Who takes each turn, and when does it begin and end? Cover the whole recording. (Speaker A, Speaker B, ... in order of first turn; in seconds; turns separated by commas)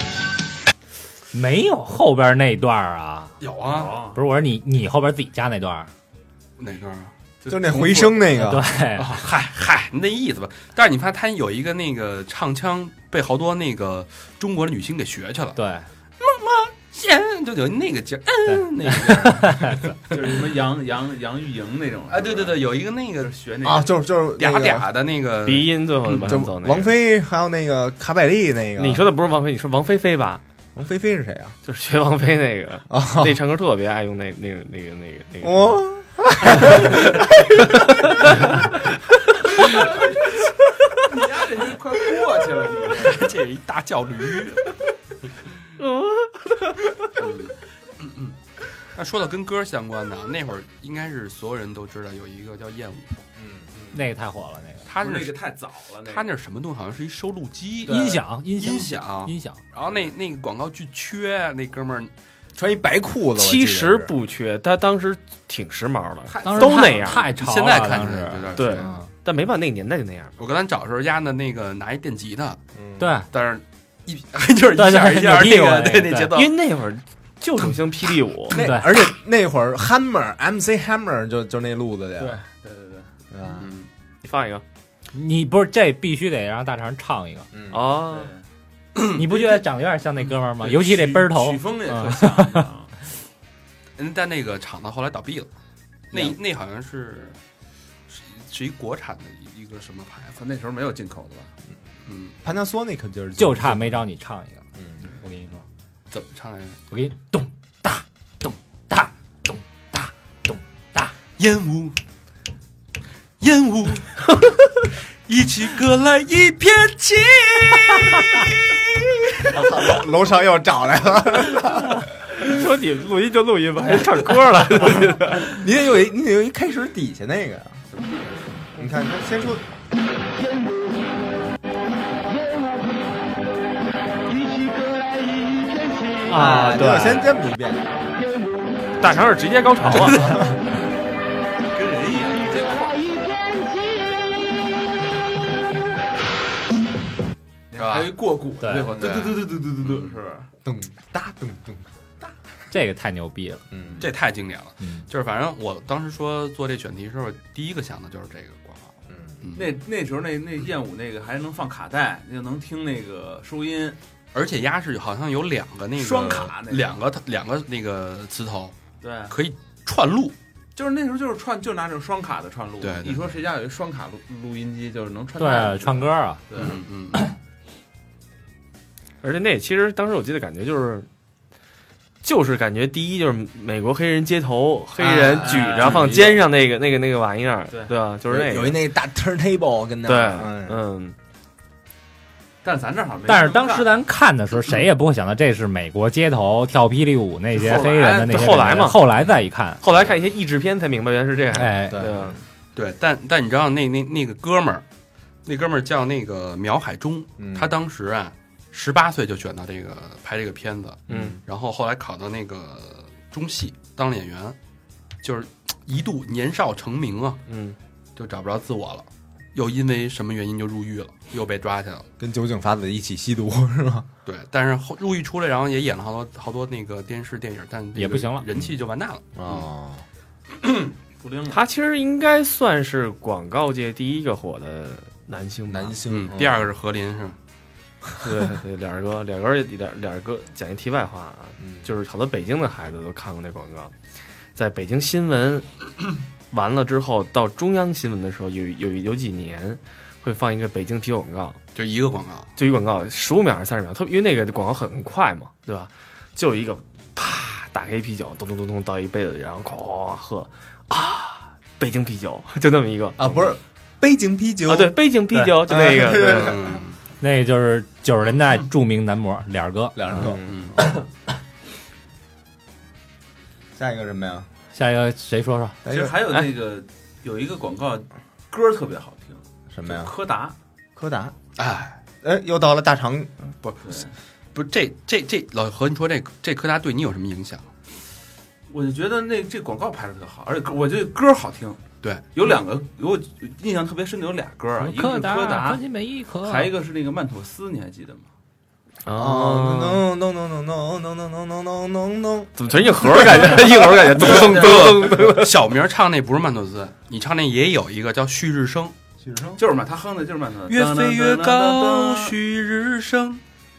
Speaker A: 1.3-3.3, Speaker B: 3.4-4.0, Speaker C: 3.6-4.2, Speaker A: 4.1-5.9, Speaker B: 6.6-7.1, Speaker C: 7.4-8.4, Speaker D: 7.5-8.7, Speaker A: 8.4-9.2, Speaker B: 8.9-15.6, Speaker A: 15.6-15.8, Speaker B: 16.2-20.3, Speaker A: 18.4-19.9, Speaker C: 20.1-24.0, Speaker B: 22.1-23.3, Speaker D: 23.6-24.9, Speaker B: 24.4-26.4, Speaker E: 25.4-26.9, Speaker D: 26.2-29.1, Speaker E: 28.8-30.4, Speaker D: 30.7-31.5, Speaker E: 31.6-35.8, Speaker D: 32.9-33.4, Speaker D: 35.4-37.3, Speaker E: 37.9-38.4, Speaker C: 39.7-40.0, Speaker C: 40.9-43.2, Speaker B: 43.0-44.6, Speaker E: 45.8-46.3, Speaker B: 47.2-48.3, Speaker B: 48.9-53.2, Speaker D: 53.4-53.7, Speaker A: 53.9-54.9, Speaker B: 54.8-55.4, Speaker C: 55.0-56.3, Speaker B: 56.0-62.1, Speaker A: 57.9-59.6, Speaker C: 57.9-58.2, Speaker D: 62.5-64.1, Speaker E: 63.4-67.2, Speaker C: 66.3-67.3, Speaker A: 66.4-69.1, Speaker B: 67.3-68.8, Speaker E: 68.6-70.3, Speaker B: 70.4-72.6, Speaker D: 72.8-73.1, Speaker A: 73.0-73.3, Speaker B: 73.3-76.5, Speaker A: 74.7-76.3, Speaker E: 76.3-78.6, Speaker A: 78.5-78.9, Speaker D: 78.5-82.4, Speaker C: 82.2-83.1, Speaker D: 83.3-83.7, Speaker B: 83.6-83.9, Speaker E: 84.2-84.6, Speaker A: 85.1-87.5, Speaker D: 87.5-87.8, Speaker E: 87.7-88.3, Speaker C: 88.1-88.4, Speaker A: 89.1-92.6, Speaker C: 90.2-92.9, Speaker B: 94.0-95.5, Speaker B: 96.1-97.3, Speaker B: 98.1-100.4, Speaker C: 100.4-101.5, Speaker B: 102.0-102.3, Speaker D: 102.4-104.0, Speaker A: 103.4-105.6, Speaker B: 106.1-106.8, Speaker A: 106.9-111.1, Speaker B: 111.4-112.0, Speaker B: 113.4-114.3, Speaker B: 115.3-119.8, Speaker D: 119.5-122.0, Speaker E: 122.3-125.5, Speaker D: 125.4-127.8, Speaker D: 128.8-129.6, Speaker A: 136.3-137.3, Speaker D: 136.3-137.9, Speaker E: 139.0-140.3, Speaker B: 139.9-140.4, Speaker C: 141.7-143.1, Speaker C: 147.7-150.5, Speaker B: 147.8-148.1, Speaker A: 148.6-149.0, Speaker B: 149.0-150.1, Speaker D: 150.6-151.8, Speaker A: 152.7-153.6, Speaker D: 153.7-154.0, Speaker B: 154.0-159.8, Speaker A: 154.8-155.1, Speaker D: 159.1-159.4, Speaker C: 159.6-164.0, Speaker B: 164.3-168.8, Speaker C: 165.9-167.0, Speaker C: 169.0-169.3, Speaker B: 169.3-170.3, Speaker C: 170.8-176.8, Speaker B: 172.8-173.2, Speaker A: 175.4-176.4, Speaker B: 176.5-177.2, Speaker E: 179.2-181.1, Speaker E: 182.2-188.8, Speaker C: 185.0-186.4, Speaker C: 187.7-187.9, Speaker D: 188.3-190.8, Speaker E: 190.1-191.2, Speaker C: 192.6-194.0, Speaker A: 193.2-199.8, Speaker C: 197.5-198.9, Speaker E: 198.3-199.0, Speaker E: 199.8-202.4, Speaker A: 201.5-202.0, Speaker D: 201.9-202.3, Speaker B: 202.8-204.8, Speaker B: 205.4-214.6, Speaker D: 207.4-207.7, Speaker D: 211.1-211.4, Speaker B: 215.2-217.4, Speaker E: 217.5-217.8, Speaker B: 218.2-222.1, Speaker D: 222.2-224.1, Speaker B: 224.2-229.6, Speaker A: 227.9-228.4, Speaker D: 229.3-230.0, Speaker C: 231.2-231.6, Speaker E: 231.5-236.0, Speaker D: 235.7-236.7, Speaker B: 236.1-237.3, Speaker E: 238.2-243.9, Speaker D: 241.6-241.9, Speaker E: 244.5-245.7, Speaker E: 246.5-251.6, Speaker B: 251.7-252.5, Speaker E: 252.6-263.5, Speaker D: 263.2-266.8, Speaker E: 264.6-266.5, Speaker B: 266.4-267.0, Speaker A: 267.2-270.3, Speaker D: 269.9-270.8, Speaker E: 270.2-270.5, Speaker B: 270.5-270.8, Speaker D: 273.7-274.5, Speaker A: 274.7-275.8, Speaker D: 275.8-276.1, Speaker C: 275.9-280.5, Speaker D: 279.7-280.1, Speaker D: 280.9-281.4, Speaker B: 281.6-282.0, Speaker D: 282.2-283.3, Speaker C: 283.8-284.1, Speaker B: 284.5-287.7, Speaker C: 288.7-291.8, Speaker C: 292.3-295.8, Speaker A: 294.8-296.7, Speaker C: 296.4-298.3, Speaker E: 299.1-300.0, Speaker D: 299.1-302.5, Speaker E: 302.6-305.5, Speaker C: 303.2-305.1, Speaker B: 304.2-308.9, Speaker D: 309.2-309.6, Speaker C: 309.6-312.3, Speaker B: 310.7-313.4